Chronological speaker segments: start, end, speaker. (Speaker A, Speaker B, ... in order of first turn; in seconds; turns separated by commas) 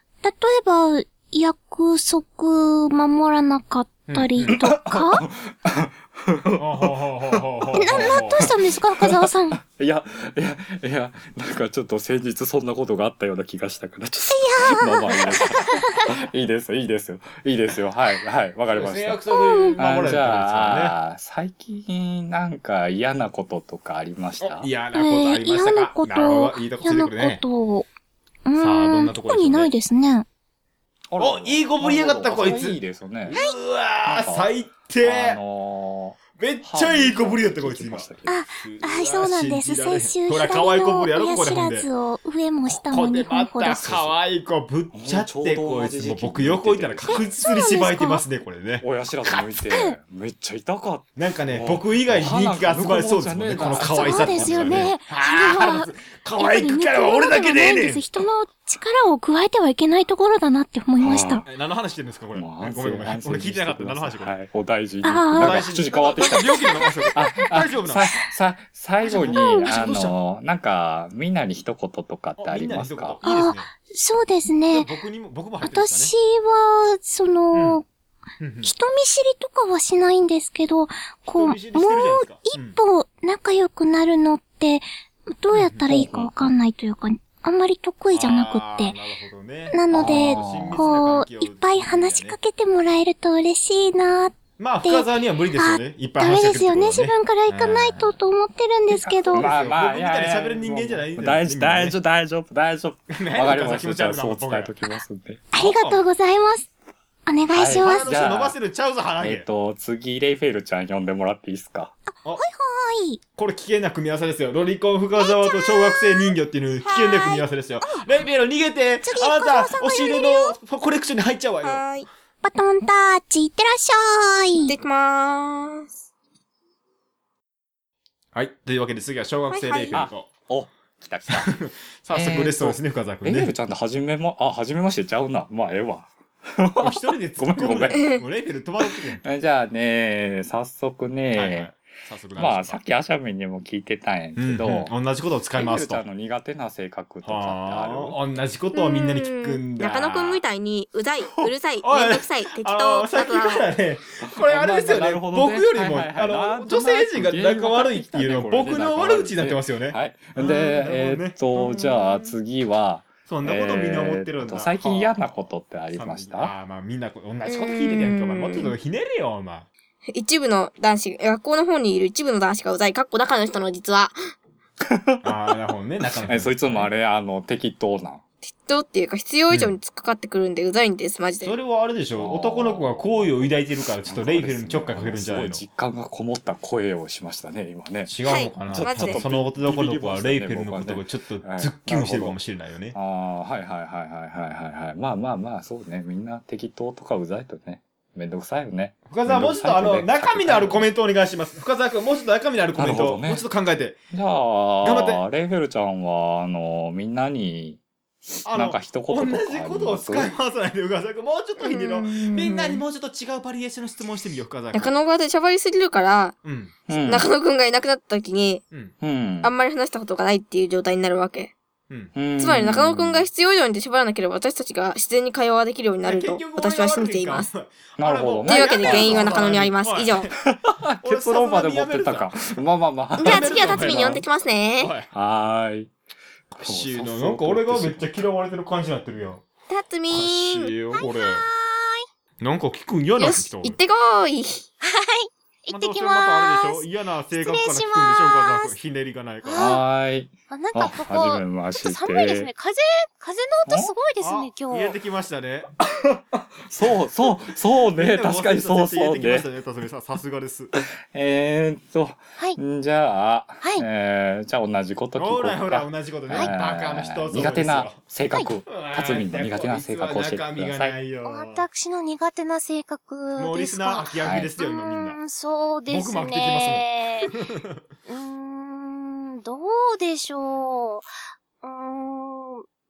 Speaker A: 0.2-5.2, Speaker B: 4.1-4.5, Speaker C: 4.5-19.2, Speaker B: 6.6-8.5, Speaker A: 7.7-9.6, Speaker A: 14.2-16.1, Speaker B: 18.7-20.9, Speaker A: 19.3-19.8, Speaker C: 19.8-24.7, Speaker B: 24.4-27.4, Speaker A: 24.9-27.9, Speaker A: 28.4-30.2, Speaker B: 28.6-29.7, Speaker C: 31.1-33.4, Speaker B: 31.2-35.4, Speaker C: 34.0-34.5, Speaker C: 35.0-38.4, Speaker B: 36.4-41.9, Speaker A: 38.3-44.1, Speaker B: 42.8-48.8, Speaker C: 44.9-47.3, Speaker A: 47.1-48.2, Speaker C: 48.8-54.9, Speaker B: 51.1-58.0, Speaker A: 53.7-61.5, Speaker C: 61.0-61.4, Speaker B: 61.5-64.3, Speaker C: 62.3-66.6, Speaker A: 65.0-67.2, Speaker B: 65.3-68.1, Speaker C: 67.1-73.2, Speaker B: 69.0-70.2, Speaker A: 69.2-69.7, Speaker B: 72.4-73.7, Speaker A: 73.2-74.9, Speaker B: 74.7-76.1, Speaker A: 75.6-77.8, Speaker B: 77.5-77.8, Speaker B: 78.4-78.7, Speaker A: 78.6-84.8, Speaker B: 81.3-82.8, Speaker A: 85.4-89.0, Speaker B: 85.5-85.8, Speaker C: 85.8-86.3, Speaker B: 88.1-92.4, Speaker A: 89.7-99.5, Speaker C: 89.9-90.8, Speaker B: 94.6-98.1, Speaker C: 98.9-105.5, Speaker B: 99.3-102.0, Speaker B: 103.1-104.7, Speaker A: 105.5-106.7, Speaker B: 105.6-106.0, Speaker A: 107.3-108.1, Speaker C: 107.5-108.5, Speaker B: 107.8-109.5, Speaker C: 109.2-111.9, Speaker A: 112.1-113.2, Speaker B: 113.4-121.8, Speaker A: 115.2-116.3, Speaker A: 116.9-118.0, Speaker A: 119.0-120.6, Speaker D: 121.6-122.1, Speaker A: 122.4-124.8, Speaker D: 124.6-125.9, Speaker B: 128.3-130.3, Speaker D: 129.5-130.0, Speaker C: 129.9-131.5, Speaker B: 131.3-133.5, Speaker C: 132.1-138.2, Speaker B: 136.8-139.2, Speaker C: 139.2-141.7, Speaker B: 141.3-142.8, Speaker C: 142.3-144.9, Speaker B: 144.3-146.0, Speaker C: 145.5-148.2, Speaker B: 147.2-150.4, Speaker D: 148.7-153.7, Speaker B: 151.4-162.3, Speaker C: 154.2-166.5, Speaker B: 163.3-165.2, Speaker B: 165.9-169.7, Speaker D: 167.5-168.7, Speaker D: 170.1-174.2, Speaker C: 174.9-175.3, Speaker B: 175.2-176.9, Speaker C: 176.2-178.2, Speaker D: 178.5-181.6, Speaker B: 181.4-185.6, Speaker C: 182.2-188.1, Speaker B: 188.1-192.9, Speaker D: 188.2-189.2, Speaker C: 188.6-192.4, Speaker C: 192.9-200.9, Speaker B: 199.1-204.0, Speaker C: 202.7-203.4, Speaker C: 204.1-207.8, Speaker B: 204.8-205.2, Speaker C: 208.3-210.3, Speaker B: 208.4-214.9, Speaker D: 211.6-212.8, Speaker D: 214.7-216.4, Speaker B: 216.4-216.7, Speaker C: 216.9-217.3, Speaker D: 216.9-218.6, Speaker C: 219.0-219.5, Speaker D: 219.4-221.5, Speaker C: 222.1-223.3, Speaker D: 222.4-227.5, Speaker B: 226.0-230.4, Speaker C: 228.0-229.5, Speaker D: 228.4-230.3, Speaker C: 230.5-234.2, Speaker B: 231.0-232.5, Speaker D: 233.2-234.9, Speaker B: 233.2-234.2, Speaker B: 234.8-235.1, Speaker C: 235.1-235.9, Speaker B: 236.5-239.4, Speaker C: 236.6-238.2, Speaker D: 239.7-240.7, Speaker B: 240.1-241.5, Speaker E: 240.9-242.1, Speaker B: 242.4-243.8, Speaker D: 243.2-244.6, Speaker E: 244.8-248.7, Speaker B: 245.7-249.7, Speaker E: 249.5-249.8, Speaker C: 249.5-252.5, Speaker E: 250.5-254.9, Speaker C: 253.7-253.9, Speaker B: 254.2-255.7, Speaker C: 255.9-259.5, Speaker B: 257.9-260.7, Speaker C: 260.8-271.0, Speaker B: 265.1-268.0, Speaker B: 268.7-271.6, Speaker E: 271.2-277.3, Speaker B: 273.4-275.2, Speaker C: 274.2-274.5, Speaker B: 275.9-277.8, Speaker E: 278.1-281.1, Speaker E: 281.6-282.6